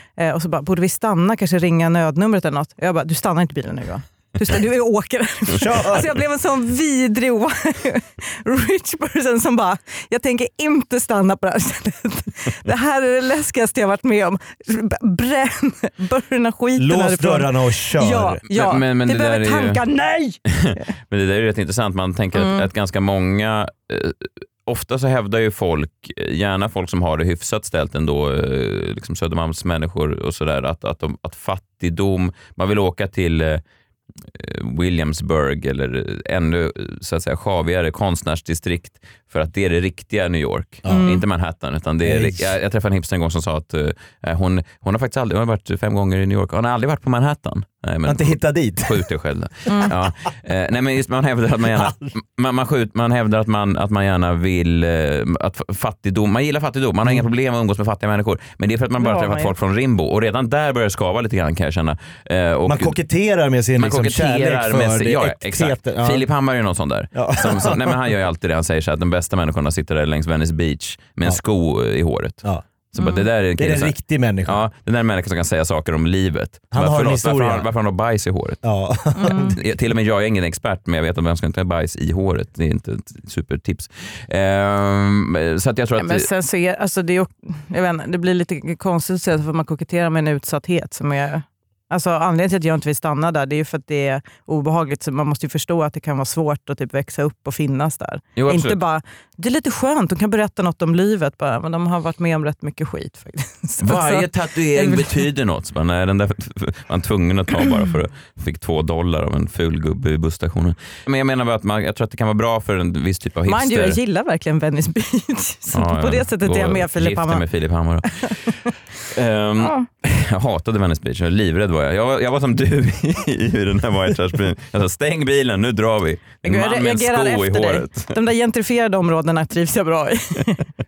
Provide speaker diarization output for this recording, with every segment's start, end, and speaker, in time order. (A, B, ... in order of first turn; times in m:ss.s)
0:00.2-0:20.9 A
0:05.6-0:06.1 B
0:16.8-0:18.4 B
0:18.5-0:19.8 C
0:20.5-0:33.6 C
0:22.3-0:22.7 A
0:34.3-1:03.0 C
0:40.8-0:41.1 B
0:40.9-0:41.2 A
0:42.0-0:42.5 B
0:48.1-0:49.1 B
0:49.7-0:49.9 A
0:51.8-0:52.1 B
0:59.0-0:59.5 A
1:02.7-1:06.3 B
1:03.8-1:18.6 C
1:07.1-1:08.0 B
1:13.0-1:13.3 A
1:13.6-1:14.6 B
1:16.7-1:17.7 B
1:18.6-1:19.6 B
1:19.2-1:19.6 A
1:19.5-1:26.3 C
1:26.0-1:45.3 A
1:38.4-1:38.8 C
1:43.8-1:54.0 C
1:53.5-1:57.4 A
1:55.7-1:58.6 C
1:58.1-1:58.7 A
1:59.1-2:08.1 C
1:59.6-1:59.9 A
2:06.4-2:10.6 A